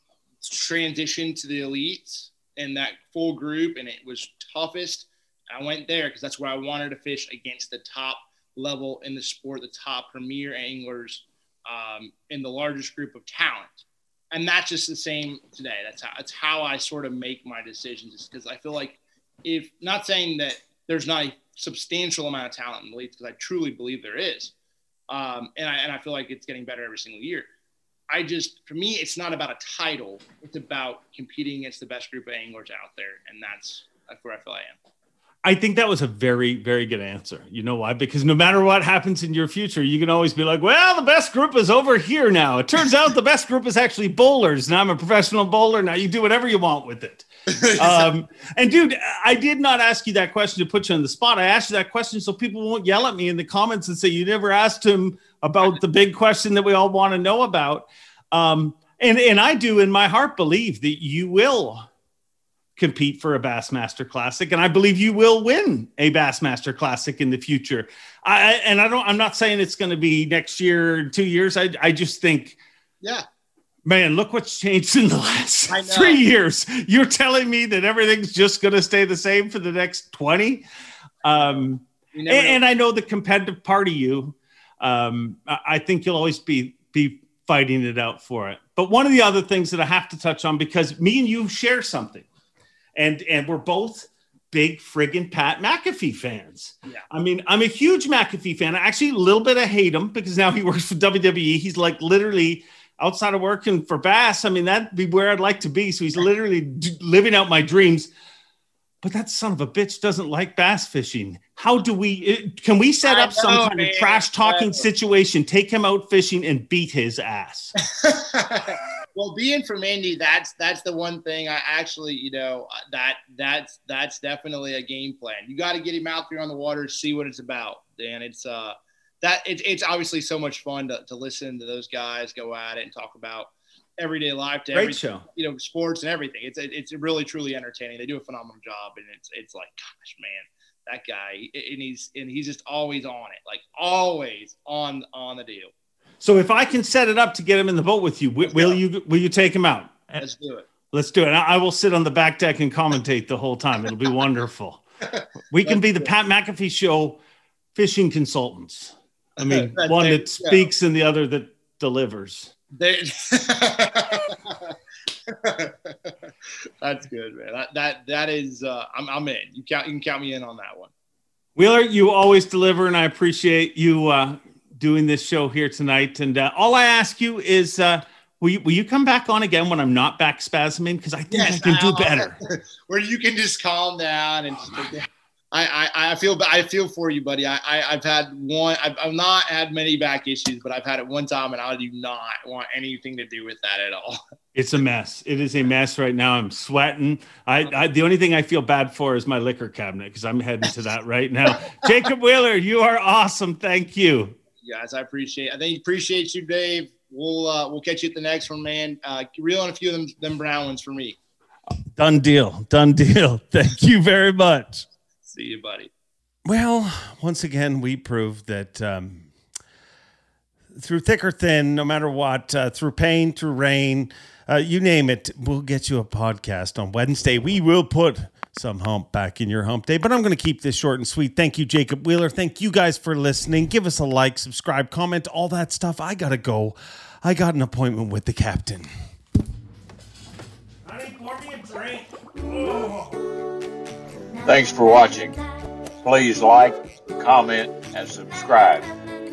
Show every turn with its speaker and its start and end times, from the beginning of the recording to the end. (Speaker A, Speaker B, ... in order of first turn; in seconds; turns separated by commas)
Speaker A: 0.4-24.5, Speaker A: 25.1-27.5, Speaker A: 28.1-34.8, Speaker B: 35.4-61.9, Speaker A: 47.5-48.1, Speaker B: 62.8-72.6, Speaker B: 73.8-80.6, Speaker A: 75.7-76.2, Speaker A: 81.2-82.6, Speaker B: 81.2-92.2, Speaker B: 93.0-108.1, Speaker B: 109.0-117.7, Speaker A: 113.0-114.8, Speaker A: 117.8-145.7, Speaker B: 134.7-135.2, Speaker B: 146.2-150.2, Speaker A: 148.5-148.8, Speaker A: 150.2-150.7, Speaker B: 150.9-154.8, Speaker A: 155.0-156.1, Speaker B: 155.5-157.2, Speaker B: 157.7-162.5, Speaker A: 159.4-160.7, Speaker A: 162.7-164.7, Speaker A: 165.3-166.3, Speaker A: 166.8-170.9, Speaker B: 171.6-182.4, Speaker A: 181.3-194.2, Speaker B: 194.5-204.3, Speaker A: 204.6-211.2, Speaker B: 211.9-214.8, Speaker A: 215.2-215.9, Speaker B: 216.4-219.3, Speaker B: 220.7-238.9, Speaker B: 240.8-243.2, Speaker C: 244.4-245.4, Speaker C: 246.0-248.9